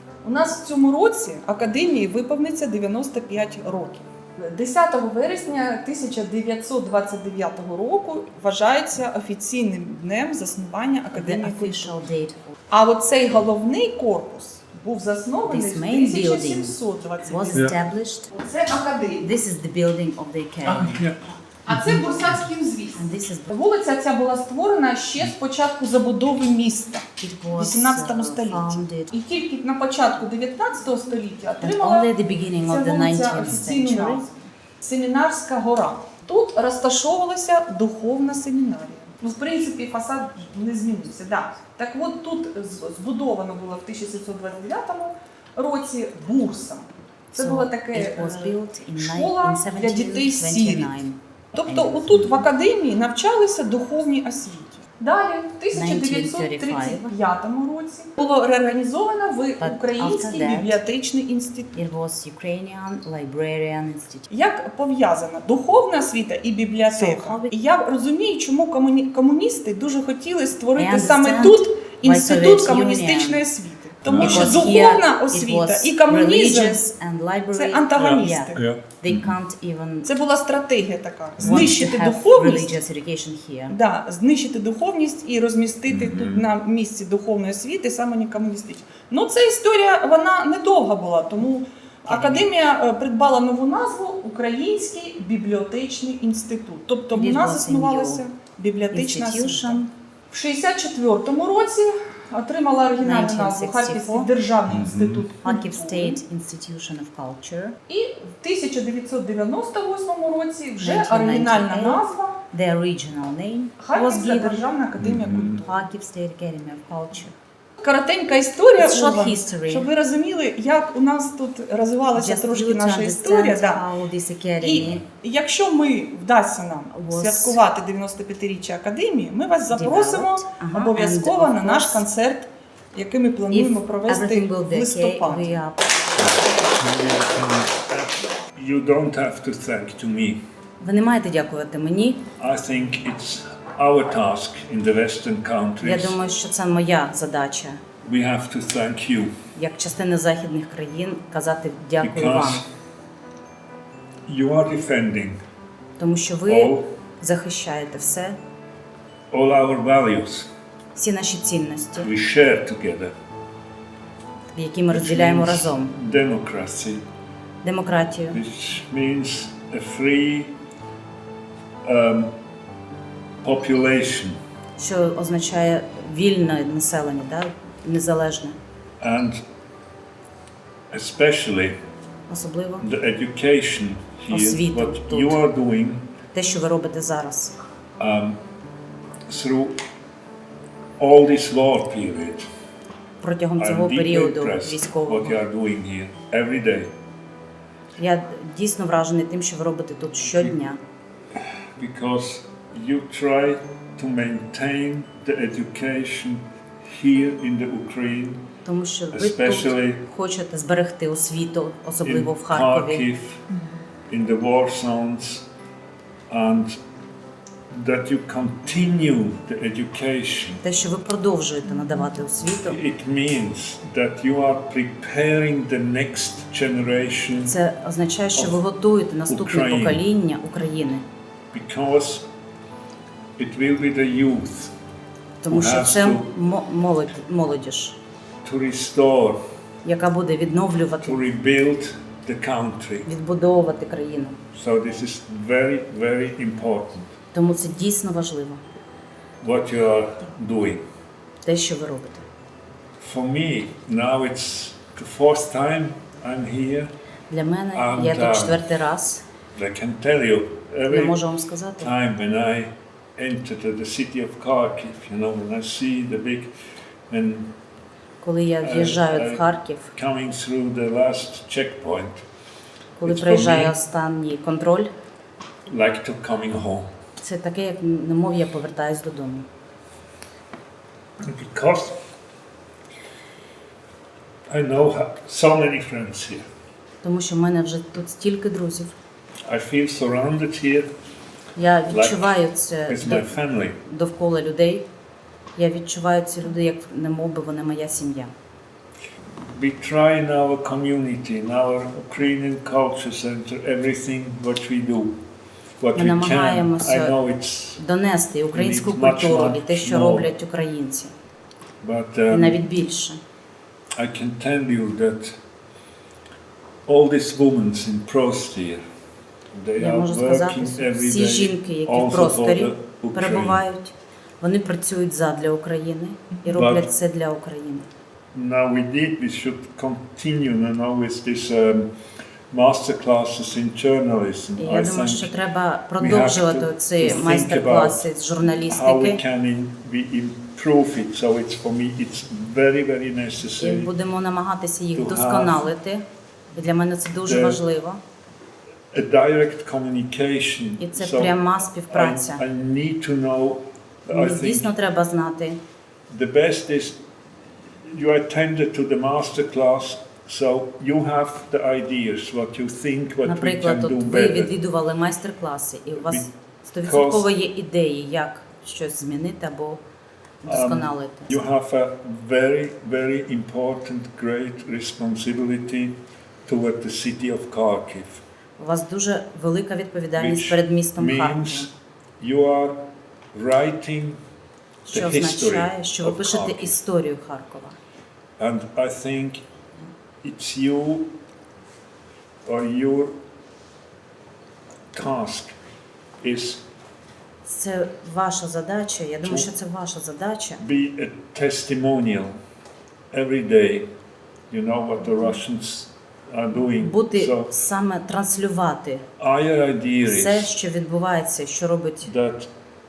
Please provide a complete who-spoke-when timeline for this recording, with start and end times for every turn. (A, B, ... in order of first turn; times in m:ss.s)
0:00.2-0:11.9 A
0:11.1-0:12.5 B
0:12.7-0:17.8 A
0:15.5-0:18.3 B
0:18.3-0:19.3 A
0:19.2-0:21.1 B
0:20.6-0:22.3 C
0:21.6-0:32.1 A
0:22.9-0:23.5 B
0:27.2-0:29.1 B
0:31.6-0:34.3 B
0:32.6-0:51.0 A
0:47.3-0:52.4 B
0:51.5-1:01.8 A
0:55.7-0:57.1 B
0:59.6-1:00.8 B
1:01.7-1:04.3 B
1:04.3-1:16.8 A
1:06.9-1:07.5 B
1:10.8-1:13.4 B
1:14.0-1:14.7 C
1:14.1-1:20.1 B
1:17.5-1:18.6 A
1:18.0-1:19.3 C
1:20.0-1:22.8 A
1:21.4-1:21.7 C
1:21.4-1:23.8 B
1:23.7-1:39.8 A
1:25.9-1:26.5 C
1:32.1-1:32.5 B
1:37.1-1:38.2 B
1:38.9-1:39.9 B
1:40.3-1:46.2 A
1:43.0-1:44.3 B
1:44.7-1:45.3 C
1:45.4-1:47.8 B
1:47.9-1:52.4 A
1:50.8-1:54.6 B
1:53.8-1:55.8 A
1:55.0-1:55.6 C
1:55.6-1:57.3 B
1:57.8-2:03.8 A
1:58.8-1:59.9 B
2:02.1-2:05.0 B
2:04.6-2:15.6 A
2:06.9-2:07.6 B
2:09.7-2:12.0 B
2:13.5-2:15.9 B
2:16.2-2:20.4 C
2:20.8-2:22.2 B
2:22.4-2:26.2 C
2:25.8-2:27.8 B
2:28.0-2:29.3 C
2:29.5-2:32.6 B
2:32.0-2:32.6 C
2:34.3-2:35.4 C
2:36.0-2:38.4 B
2:36.5-2:36.8 C
2:39.3-2:40.5 C
2:40.9-2:42.1 B
2:42.0-2:43.1 C
2:44.5-2:45.9 B
2:44.9-2:47.0 C
2:47.6-2:48.4 B
2:48.3-2:50.5 C
2:51.8-2:52.3 C
2:53.4-2:54.4 C
2:54.8-2:58.6 B
2:59.0-2:59.4 C
3:00.9-3:01.8 C
3:02.3-3:02.8 B
3:02.8-3:06.1 C
3:04.3-3:05.4 B
3:06.3-3:07.6 B
3:08.0-3:08.4 C
3:09.3-3:09.8 C
3:11.0-3:12.5 C
3:13.2-3:15.4 B
3:13.6-3:16.9 C
3:18.0-3:20.8 B
3:20.3-3:20.6 C
3:21.3-3:28.5 C
3:28.6-3:33.0 B
3:29.1-3:30.0 C
3:32.0-3:33.4 C
3:34.1-3:35.5 C
3:36.3-3:36.8 C
3:37.7-3:40.6 C
3:40.6-3:42.8 B
3:42.6-3:47.5 C
3:47.4-3:51.0 B
3:49.3-3:50.0 C
3:51.5-3:52.3 C
3:53.4-3:54.7 C
3:55.4-3:58.0 B
3:55.5-3:56.3 C
3:58.4-3:59.4 C
3:59.8-4:01.2 B
4:01.0-4:03.1 C
4:03.0-4:04.4 B
4:04.5-4:07.2 C
4:07.3-4:08.6 B
4:09.4-4:10.8 C
4:11.4-4:12.2 B
4:13.0-4:16.9 C
4:17.3-4:19.2 B
4:17.7-4:18.6 C
4:19.5-4:21.2 C
4:20.9-4:21.9 B
4:21.8-4:26.5 C
4:27.1-4:27.5 C
4:28.2-4:29.9 B
4:28.6-4:32.2 C
4:33.0-4:34.9 B
4:33.0-4:33.8 C
4:35.7-4:36.9 C
4:37.2-4:39.5 B
4:41.2-4:42.0 C
4:44.5-4:46.4 C
4:47.0-4:48.9 B
4:49.4-4:50.9 C
4:51.5-4:54.9 B
4:51.9-4:53.8 C
4:55.6-4:58.3 B
4:59.5-5:05.2 C
5:05.8-5:07.8 C
5:05.9-5:07.2 B
5:07.8-5:11.1 B
5:08.5-5:10.3 C
5:11.8-5:12.6 C
5:12.3-5:13.2 B
5:14.0-5:15.4 C
5:16.8-5:18.8 C
5:19.5-5:23.6 C
5:19.8-5:27.9 B
5:26.5-5:26.9 C
5:28.3-5:31.9 C
5:32.5-5:35.3 C
5:34.6-5:39.2 B
5:36.0-5:38.1 C
5:38.6-5:43.9 C
5:43.6-5:48.0 B
5:44.9-5:45.7 C
5:47.2-5:47.6 C
5:48.9-5:54.7 C
5:50.8-5:52.4 B
5:54.1-5:55.6 B
5:56.1-5:57.0 C
5:57.7-6:04.5 C
6:03.2-6:09.8 B
6:06.0-6:06.3 C
6:06.8-6:07.3 C
6:10.4-6:11.4 B
6:10.4-6:18.2 C
6:18.6-6:21.7 B
6:20.2-6:24.2 C
6:24.8-6:27.8 B
6:24.9-6:26.8 C
6:28.4-6:29.4 C
6:30.2-6:31.1 C
6:32.4-6:33.2 C
6:34.9-6:35.6 C
6:36.2-6:36.6 C
6:37.4-6:40.6 B
6:40.6-6:42.4 C
6:43.1-6:43.9 C
6:44.5-6:47.5 C
6:46.8-6:49.0 B
6:49.2-6:50.5 C
6:50.0-6:52.1 B
6:52.0-6:52.5 C